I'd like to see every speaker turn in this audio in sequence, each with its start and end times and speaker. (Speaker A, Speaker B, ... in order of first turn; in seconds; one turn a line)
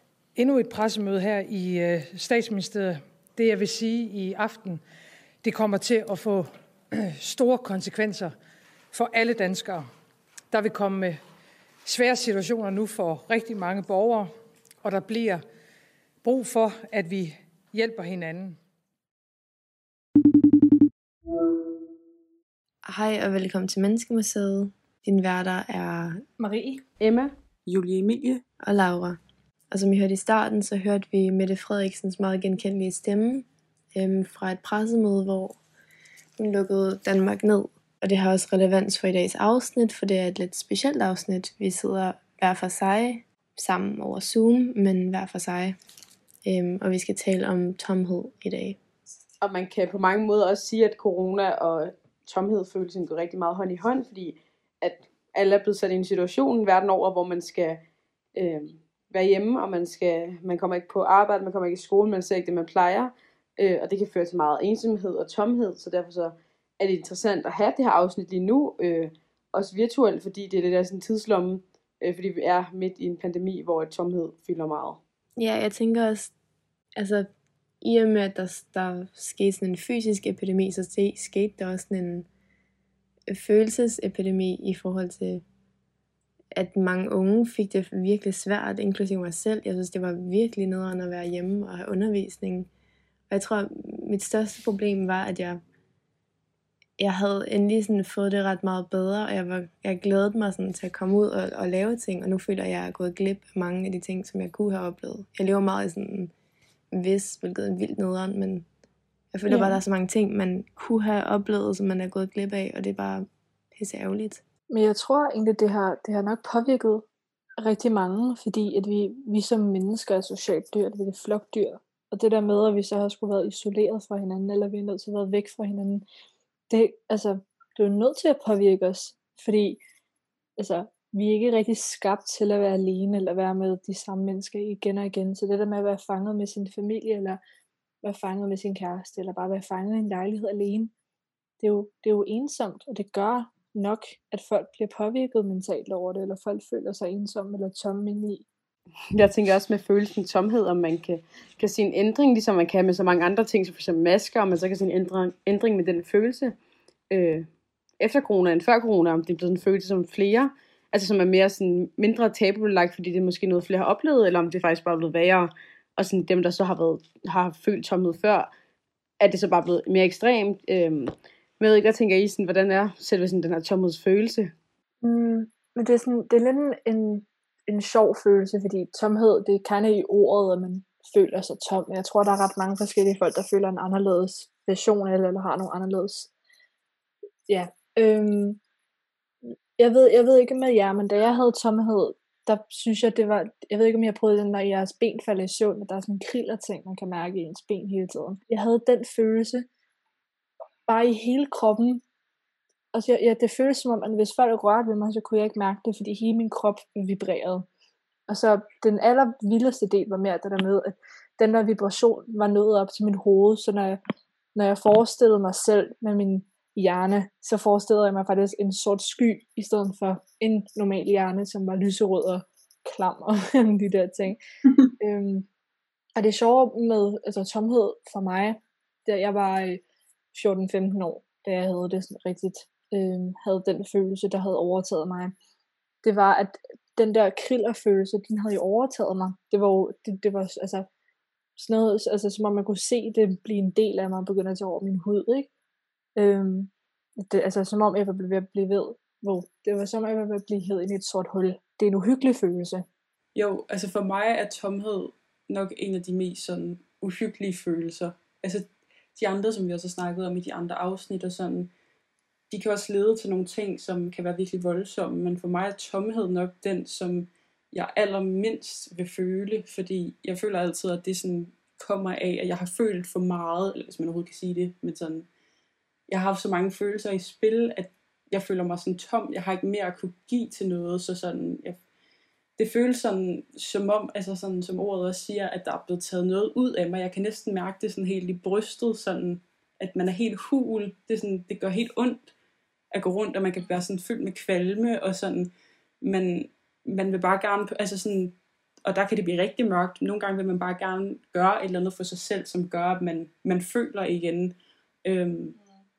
Speaker A: 0.3-4.8
Speaker A: 5.4-8.3
Speaker A: 8.9-9.9
Speaker A: 10.5-11.2
Speaker A: 11.8-15.4
Speaker A: 16.2-18.6
Speaker B: 22.9-26.2
Speaker C: 26.4-26.8
Speaker D: 27.0-27.3
Speaker E: 27.7-28.4
Speaker B: 28.6-29.2
Speaker B: 29.7-35.6
Speaker B: 36.4-45.8
Speaker B: 46.4-48.8
Speaker D: 49.4-57.8
Speaker D: 58.4-75.0
Speaker B: 75.4-76.3
Speaker B: 77.0-77.3
Speaker B: 77.8-82.3
Speaker B: 83.3-85.4
Speaker B: 86.5-92.7
Speaker B: 93.3-95.6
Speaker B: 97.0-106.3
Speaker B: 106.9-108.7
Speaker B: 109.3-114.4
Speaker C: 109.5-109.8
Speaker C: 114.7-117.0
Speaker C: 117.6-126.0
Speaker C: 126.7-129.8
Speaker C: 130.6-137.4
Speaker C: 138.0-140.9
Speaker C: 141.6-148.4
Speaker D: 149.1-156.5
Speaker D: 157.1-157.5
Speaker D: 158.0-168.5
Speaker D: 169.2-174.5
Speaker C: 175.0-186.3
Speaker C: 187.5-188.6
Speaker C: 189.8-199.7
Speaker C: 200.9-202.0
Speaker C: 202.9-207.7
Speaker C: 208.3-214.0
Speaker C: 214.5-224.4
Speaker C: 225.0-225.4
Speaker C: 226.2-229.8
Speaker C: 230.3-235.3
Speaker C: 236.0-240.9
Speaker C: 241.6-245.5
Speaker C: 246.2-252.8
Speaker E: 253.3-261.7
Speaker E: 262.5-275.3
Speaker E: 276.1-281.8
Speaker E: 282.6-292.3
Speaker E: 292.9-295.5
Speaker E: 296.0-305.6